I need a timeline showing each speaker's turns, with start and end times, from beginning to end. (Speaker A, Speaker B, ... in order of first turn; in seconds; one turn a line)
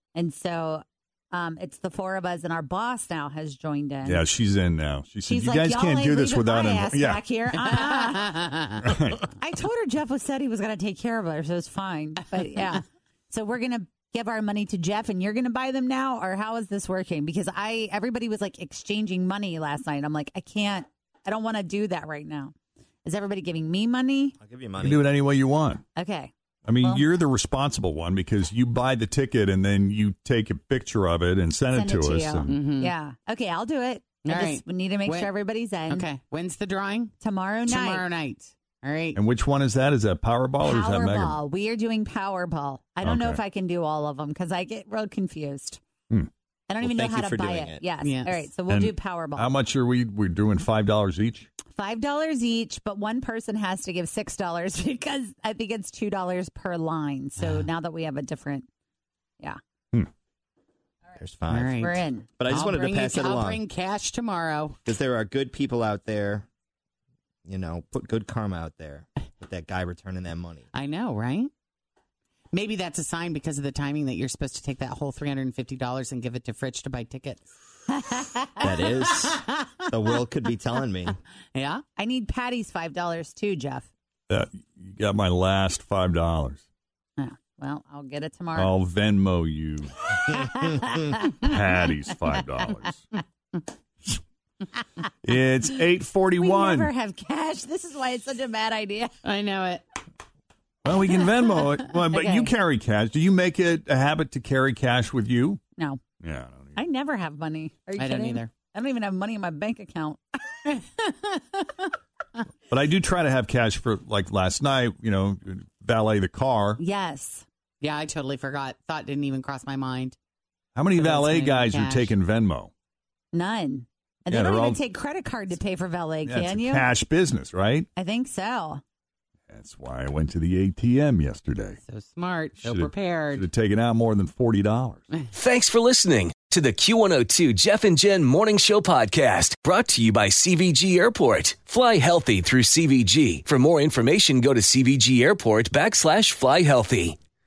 Speaker A: 0.1-4.2
Speaker B: 4.0-7.2
Speaker A: 5.3-8.6
Speaker B: 8.8-9.2
Speaker A: 9.4-24.4
Speaker C: 24.4-25.1
Speaker B: 24.8-25.8
Speaker A: 25.9-27.1
Speaker B: 26.7-32.6
Speaker A: 31.7-36.1
Speaker D: 36.0-37.0
Speaker A: 37.2-38.1
Speaker D: 37.8-38.3
Speaker B: 39.1-41.4
Speaker A: 40.6-45.8
Speaker B: 43.0-43.4
Speaker A: 46.7-49.5
Speaker C: 46.8-47.9
Speaker B: 48.7-51.5
Speaker A: 51.7-58.7
Speaker C: 61.2-63.6
Speaker A: 61.8-62.3
Speaker D: 62.9-64.7
Speaker C: 64.8-66.5
Speaker C: 67.5-70.7
Speaker D: 70.9-71.4
Speaker D: 72.6-77.4
Speaker C: 78.6-81.2
Speaker A: 82.0-83.9
Speaker B: 84.3-86.6
Speaker A: 87.2-88.7
Speaker B: 88.5-90.1
Speaker A: 90.3-91.3
Speaker B: 91.4-93.0
Speaker B: 95.2-96.9
Speaker A: 96.4-99.2
Speaker D: 99.3-99.8
Speaker B: 100.8-105.6
Speaker A: 102.1-102.5
Speaker B: 106.2-106.8
Speaker A: 106.8-110.2
Speaker B: 112.7-116.8
Speaker A: 116.8-117.5
Speaker D: 117.8-120.1
Speaker B: 120.8-122.7
Speaker D: 121.0-122.0
Speaker A: 123.3-126.9
Speaker B: 124.3-124.8
Speaker B: 126.3-127.9
Speaker A: 128.0-128.8
Speaker B: 129.5-131.8
Speaker D: 131.9-133.4
Speaker B: 132.6-135.1
Speaker E: 135.3-147.2